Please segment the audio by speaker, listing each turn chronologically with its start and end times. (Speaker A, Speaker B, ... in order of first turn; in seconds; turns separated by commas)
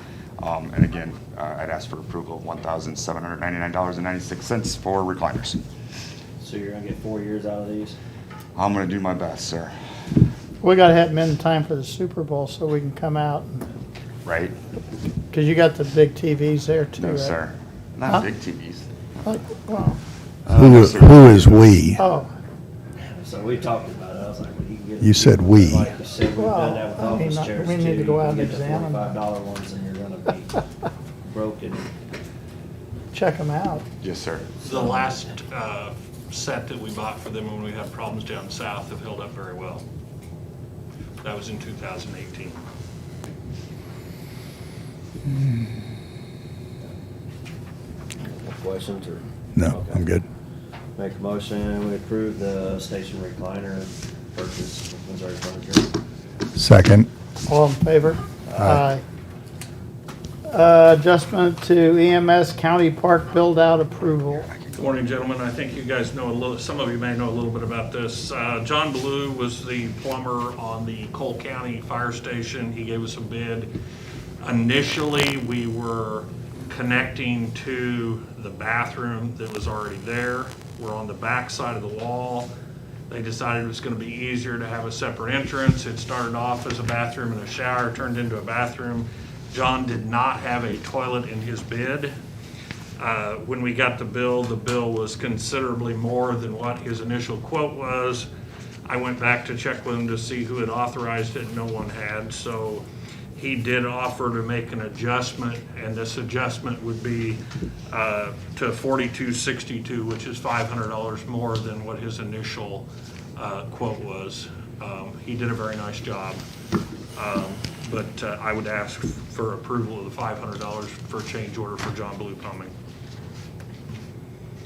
Speaker A: 0.4-5.6, Speaker B: 6.4-8.0, Speaker A: 8.6-9.7, Speaker C: 10.6-13.7, Speaker A: 14.2-14.5, Speaker C: 15.3-17.4, Speaker A: 17.0-18.9, Speaker C: 19.2-20.0, Speaker A: 20.4-21.7, Speaker D: 20.5-22.0, Speaker C: 21.9-22.3, Speaker B: 23.0-30.6, Speaker D: 25.0-25.9, Speaker C: 26.4-29.1, Speaker B: 31.2-31.9, Speaker C: 33.1-33.8, Speaker A: 34.0-34.5, Speaker B: 34.6-35.1, Speaker E: 34.6-39.8, Speaker E: 41.2-42.6, Speaker B: 48.2-50.1, Speaker D: 49.5-50.2, Speaker B: 51.0-55.9, Speaker D: 56.5-57.1, Speaker C: 57.5-59.0, Speaker C: 60.5-64.5, Speaker A: 64.4-64.9, Speaker E: 64.8-73.7, Speaker E: 74.4-82.5, Speaker E: 83.1-92.1, Speaker E: 93.0-98.3, Speaker E: 98.8-116.4, Speaker E: 117.2-122.7